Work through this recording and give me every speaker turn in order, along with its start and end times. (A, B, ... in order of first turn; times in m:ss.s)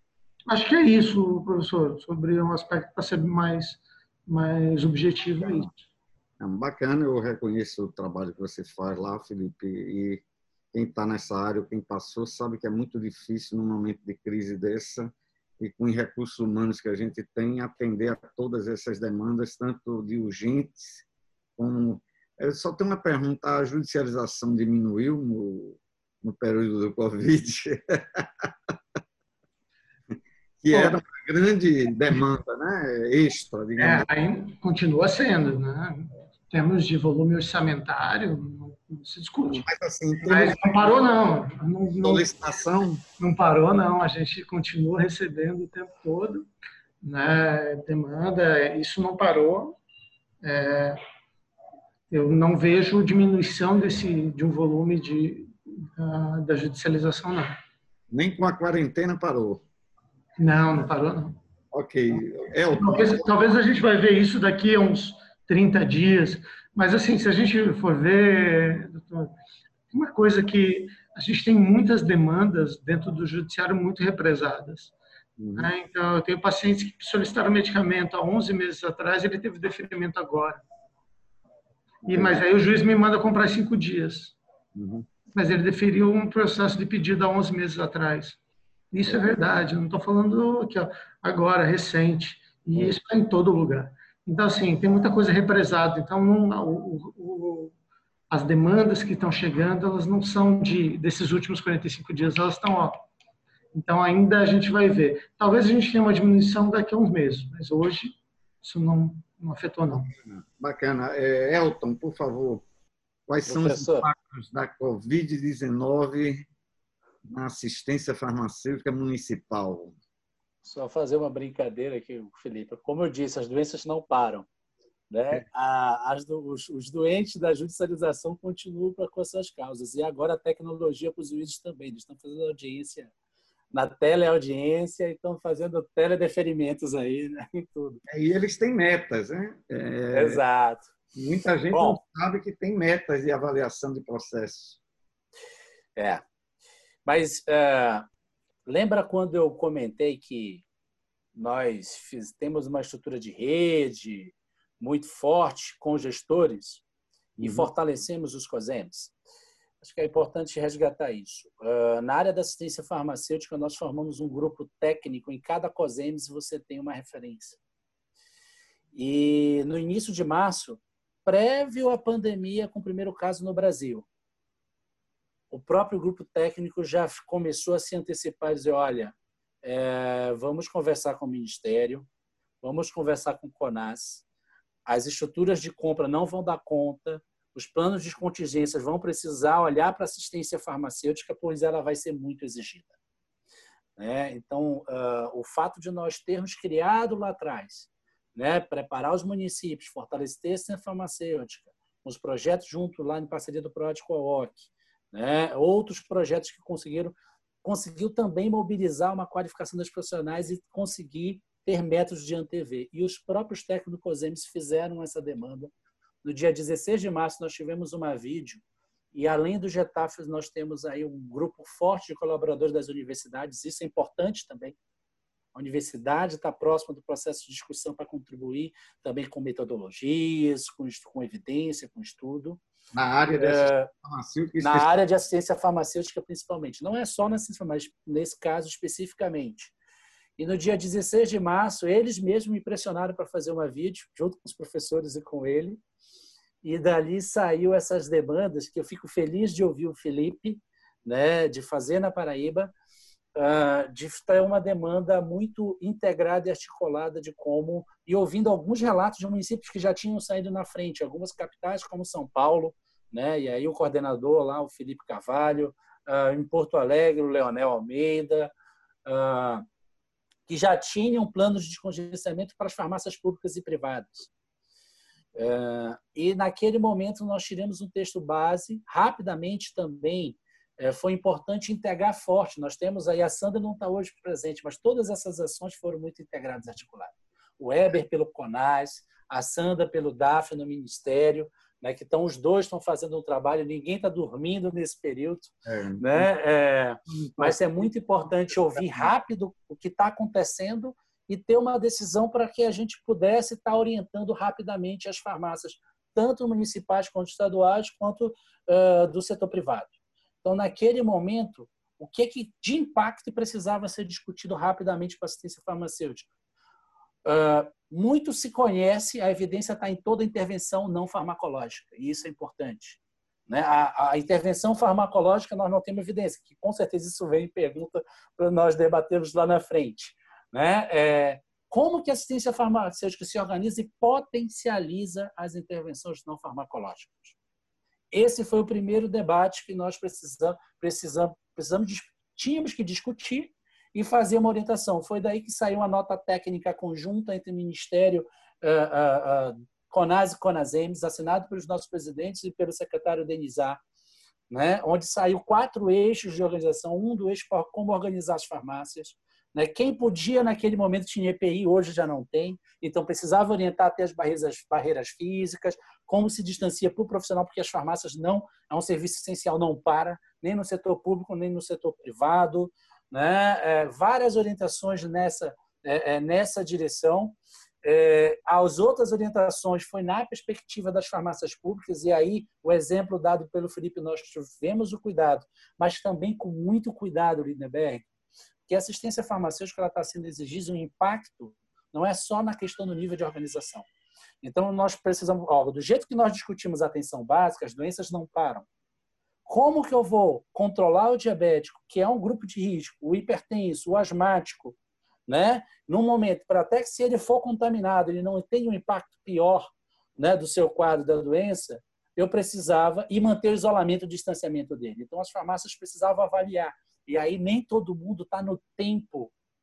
0:00.5-0:05.8 A
0:06.4-0:21.0 B
0:21.6-0:28.5 B
0:30.6-0:34.1 B
0:30.7-0:31.0 A
0:33.8-0:39.6 A
0:39.4-0:41.0 B
0:40.2-0:42.2 A
0:42.0-0:43.0 B
0:43.2-0:46.5 A
0:47.0-0:49.8 A
0:50.4-0:51.0 A
0:52.1-0:57.5 A
0:58.1-0:59.6 B
1:00.4-1:01.4 A
1:01.7-1:03.3 B
1:02.7-1:09.3 A
1:09.9-1:14.9 A
1:15.4-1:15.7 B
1:15.6-1:20.6 A
1:22.0-1:24.3 A
1:22.1-1:22.4 B
1:24.7-1:25.1 B
1:25.3-1:28.4 A
1:28.9-1:37.7 A
1:38.3-1:43.0 A
1:43.7-1:50.1 A
1:50.2-1:52.6 B
1:53.3-1:56.4 B
1:53.4-1:54.1 C
1:57.2-1:59.9 B
2:00.6-2:04.5 C
2:05.1-2:13.1 C
2:13.7-2:18.0 C
2:18.1-2:20.4 B
2:20.1-2:20.9 C
2:21.1-2:24.8 B
2:21.7-2:22.0 C
2:26.0-2:26.2 C
2:27.0-2:28.1 C
2:28.6-2:30.6 C
2:31.3-2:36.8 C
2:37.4-2:37.7 B
2:37.4-2:39.1 C
2:39.8-2:47.6 C
2:48.9-2:54.1 C
2:55.5-3:02.1 C
3:02.6-3:04.2 C
3:04.9-3:12.9 C
3:14.0-3:35.7 C
3:36.2-3:38.6 C
3:39.1-3:44.8 C
3:45.5-3:52.6 C
3:52.9-3:54.9 B
3:53.3-3:53.9 C
3:54.6-3:59.7 C
4:00.4-4:05.8 C
4:06.6-4:12.7 C
4:13.4-4:28.5 C
4:29.0-4:29.6 C
4:30.5-4:34.3 C
4:35.3-5:09.9 C
4:55.6-4:56.3 B
4:57.1-4:57.6 B
4:58.7-4:59.0 B
5:10.4-5:16.3 C
5:17.2-5:37.3 C
5:38.1-5:53.8 C
5:54.5-6:28.0 C
6:28.7-6:33.9 C
6:34.4-6:38.6 C
6:39.4-6:44.8 C
6:45.3-6:59.3 C